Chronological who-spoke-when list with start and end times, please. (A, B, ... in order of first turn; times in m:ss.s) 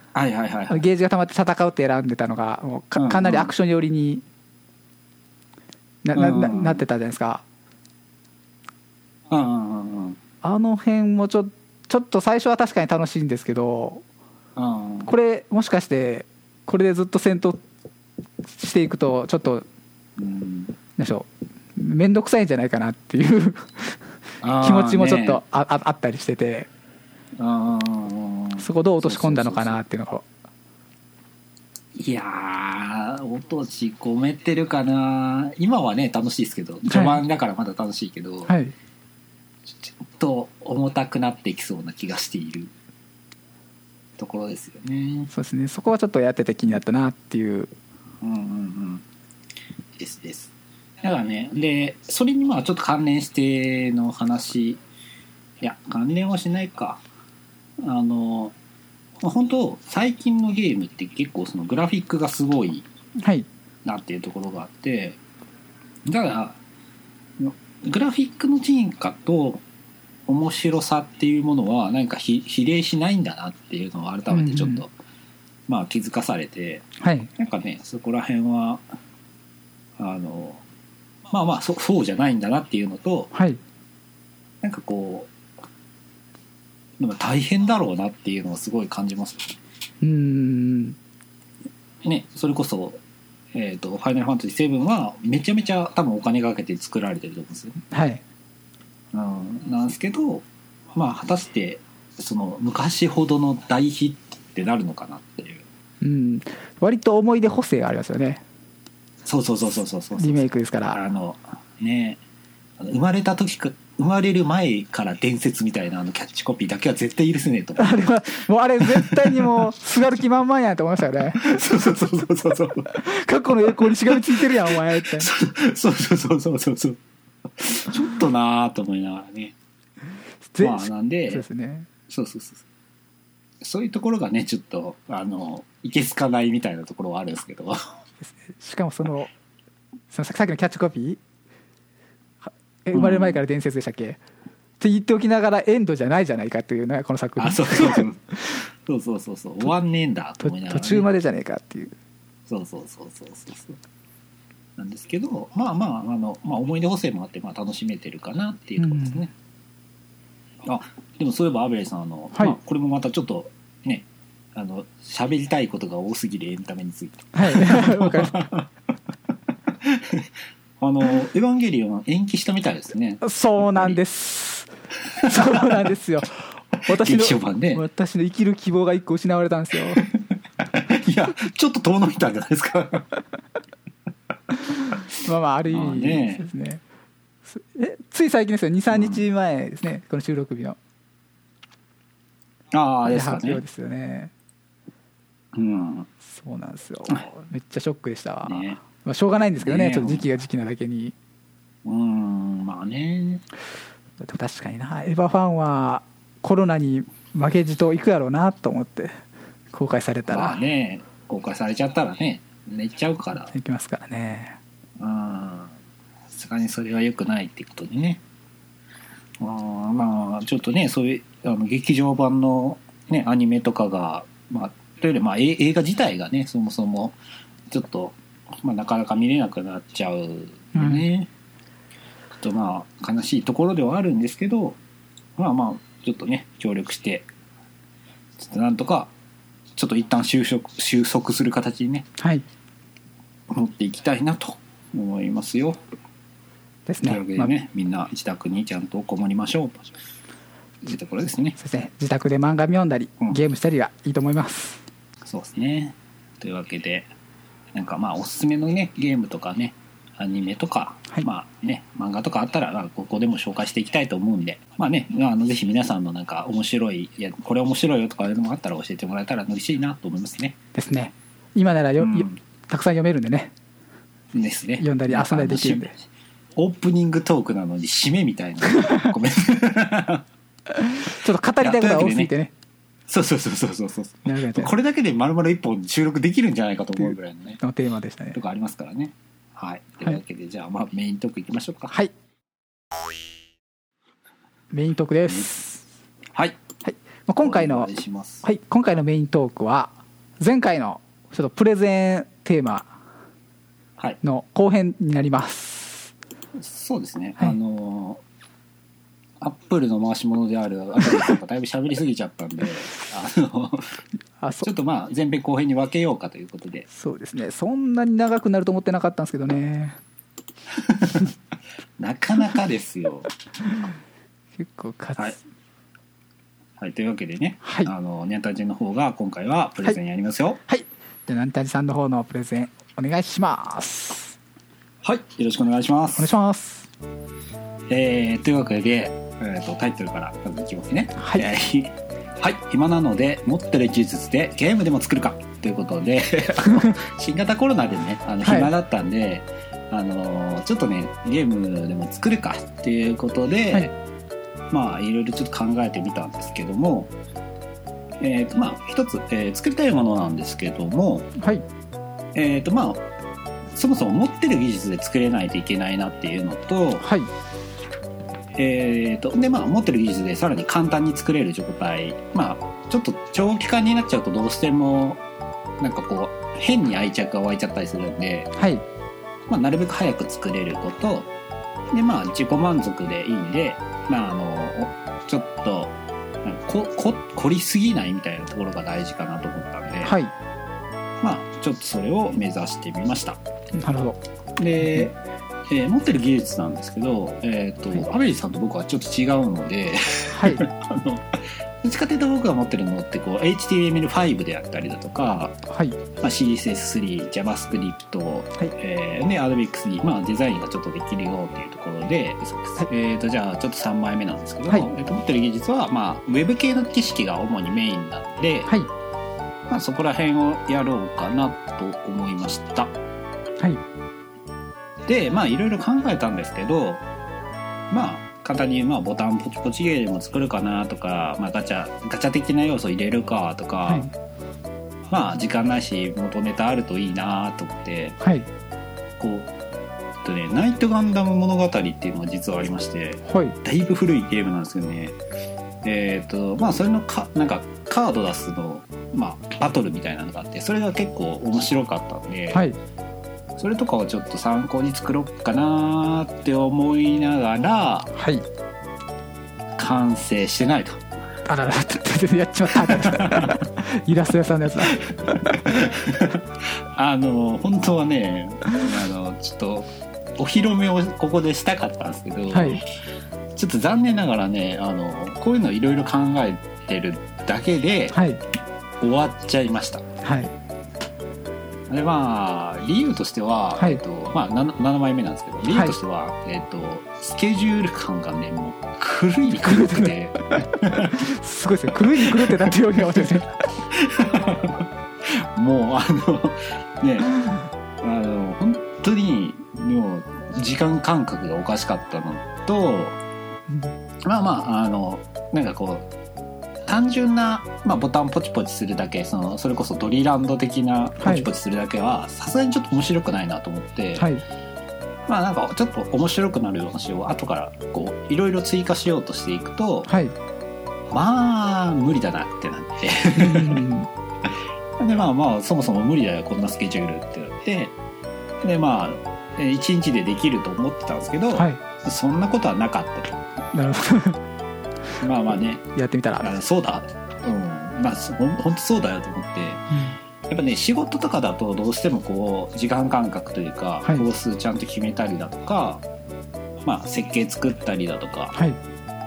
0:00.1-0:00.8 A
0:00.7-0:04.2 B
0:03.0-0:03.5 A
0:06.0-0:07.4 B
0:06.2-0:06.8 A
0:09.3-0:10.2 A
0:10.4-0:14.0 B
0:14.6-0:15.1 A
0:15.0-0:17.6 B
0:18.5-0:19.6 B
0:20.2-0:20.8 A
0:21.0-0:24.0 B
0:24.4-0:25.4 A
0:24.6-0:26.7 B
0:27.4-0:29.8 A
0:28.6-0:30.2 B
0:32.0-0:38.5 A
0:36.9-0:37.2 B
0:38.5-0:38.7 B
0:39.7-0:42.7 A
0:44.2-0:45.3 A
0:45.3-0:47.7 B
0:48.2-0:49.0 A
0:50.0-0:54.8 A
0:55.6-0:57.0 A
0:57.8-0:58.6 A
0:59.2-1:02.9 A
1:03.2-1:03.5 B
1:03.8-1:05.2 A
1:06.0-1:06.6 A
1:07.4-1:09.6 A
1:10.3-1:14.9 A
1:14.3-1:14.8 B
1:15.7-1:18.8 A
1:17.0-1:17.3 B
1:20.0-1:20.6 A
1:21.3-1:23.3 A
1:23.3-1:23.6 B
1:24.6-1:25.3 A
1:27.0-1:29.6 A
1:30.0-1:31.0 B
1:32.0-1:33.0 A
1:33.5-1:37.8 A
1:37.9-1:38.2 B
1:39.1-1:45.6 A
1:46.0-1:48.4 B
1:49.2-1:52.2 A
1:50.2-1:51.0 B
1:52.8-1:58.2 A
1:57.8-2:01.6 B
1:58.8-1:59.7 A
2:01.4-2:02.9 A
2:02.9-2:05.3 B
2:03.7-2:09.6 A
2:10.5-2:11.9 B
2:10.6-2:11.4 A
2:12.1-2:12.6 A
2:13.6-2:17.8 A
2:18.2-2:19.3 B
2:20.1-2:21.2 B
2:22.5-2:24.2 B
2:22.9-2:23.4 A
2:24.8-2:28.1 B
2:27.4-2:28.2 A
2:28.8-2:31.1 A
2:30.4-2:31.9 B
2:32.5-2:33.8 A
2:34.8-2:39.3 A
2:38.8-2:39.2 B
2:40.6-2:48.7 A
2:47.3-2:48.5 B
2:49.8-2:50.3 A
2:50.8-2:54.0 A
2:53.2-3:00.1 B
2:55.2-2:55.8 A
2:56.9-2:57.8 A
3:00.0-3:03.1 A
3:04.7-3:06.8 B
3:05.7-3:06.4 A
3:07.5-3:10.8 B
3:08.9-3:09.2 A
3:12.7-3:13.6 A
3:13.1-3:14.3 B
3:15.5-3:16.1 A
3:16.2-3:21.2 B
3:18.5-3:18.8 A
3:19.6-3:20.3 A
3:21.8-3:23.4 A
3:24.2-3:29.1 B
3:29.7-3:30.6 B
3:30.3-3:33.5 A
3:33.5-3:34.6 B
3:35.0-3:35.7 A
3:36.3-3:38.2 A
3:39.4-3:47.2 A
3:47.7-3:51.3 A
3:50.8-3:51.1 B
3:52.4-3:54.8 A
3:55.4-3:57.3 A
3:58.4-3:59.1 A
3:59.8-4:02.1 A
4:02.2-4:02.4 B
4:03.5-4:05.8 A
4:06.9-4:07.5 B
4:07.0-4:09.9 A
4:10.8-4:11.6 A
4:11.6-4:14.8 B
4:15.2-4:17.1 A
4:17.7-4:30.6 A
4:30.7-4:33.5 B
4:32.0-4:32.4 A
4:34.3-4:35.9 A
4:34.8-4:35.9 B
4:36.6-4:40.2 A
4:38.8-4:39.1 B
4:40.7-4:42.5 B
4:41.6-4:42.3 A
4:43.1-4:47.6 A
4:44.2-4:44.7 B
4:47.6-4:48.4 B
4:48.3-4:51.9 A
4:54.7-4:55.8 B
4:56.3-4:56.6 A
4:56.8-4:57.9 B
4:57.4-4:58.4 A
4:58.4-5:02.9 B
5:04.2-5:06.1 B
5:06.6-5:08.2 A
5:09.4-5:14.0 A
5:14.4-5:14.7 B
5:14.6-5:16.9 A
5:16.9-5:20.0 B
5:20.7-5:21.3 A
5:22.0-5:23.3 A
5:24.6-5:25.4 B
5:26.8-5:30.6 A
5:27.6-5:27.9 B
5:30.7-5:34.4 B
5:35.0-5:36.3 A
5:36.2-5:36.9 B
5:37.9-5:53.9 A
5:41.2-5:41.5 B
5:46.7-5:47.0 B
5:48.4-5:48.7 B
5:54.7-5:57.1 A
5:58.2-6:01.3 A
6:01.4-6:01.6 B
6:02.3-6:03.0 A
6:03.7-6:07.1 A
6:07.0-6:07.3 B
6:08.6-6:15.2 A
6:15.8-6:18.5 A
6:18.6-6:18.8 B
6:19.5-6:21.3 A
6:21.9-6:30.2 A
6:30.0-6:30.3 B
6:31.2-6:33.4 A
6:33.8-6:34.2 B
6:34.6-6:45.6 A
6:34.8-6:35.1 B
6:40.3-6:40.7 B
6:45.7-6:46.0 B
6:46.1-6:58.7 A
6:59.7-7:02.9 A
7:05.1-7:07.0 A
7:07.9-7:14.1 A
7:13.9-7:14.1 B
7:15.1-7:18.2 A
7:18.2-7:18.5 B
7:19.2-7:19.5 A
7:20.2-7:25.2 A
7:23.3-7:23.6 B
7:25.8-7:32.6 A
7:33.6-7:38.1 A
7:38.1-7:38.5 B
7:39.8-7:41.0 A
7:41.5-7:45.7 B
7:42.8-7:43.6 A
7:44.9-7:52.9 A
7:52.5-7:52.8 B
7:53.5-7:58.2 A
7:58.1-7:58.4 B
7:59.0-8:00.0 A
8:00.2-8:00.5 B
8:01.9-8:11.2 A
8:03.8-8:04.0 B
8:05.7-8:06.0 B
8:09.5-8:13.6 B
8:12.2-8:12.7 A
8:13.8-8:17.4 A
8:18.0-8:23.2 A
8:24.2-8:26.1 A
8:26.9-8:34.3 A
8:31.2-8:31.5 B
8:34.2-8:34.4 B
8:35.3-8:40.1 A
8:40.1-8:40.3 B
8:41.1-8:43.8 A
8:43.3-8:44.1 B
8:44.4-8:48.0 A
8:48.6-8:53.4 A
8:51.5-8:51.8 B
8:53.7-8:54.4 B
8:55.2-8:55.8 A
8:56.0-8:56.5 B
8:56.4-8:59.8 A
8:59.9-9:00.2 B
9:00.5-9:06.0 A
9:06.8-9:08.6 A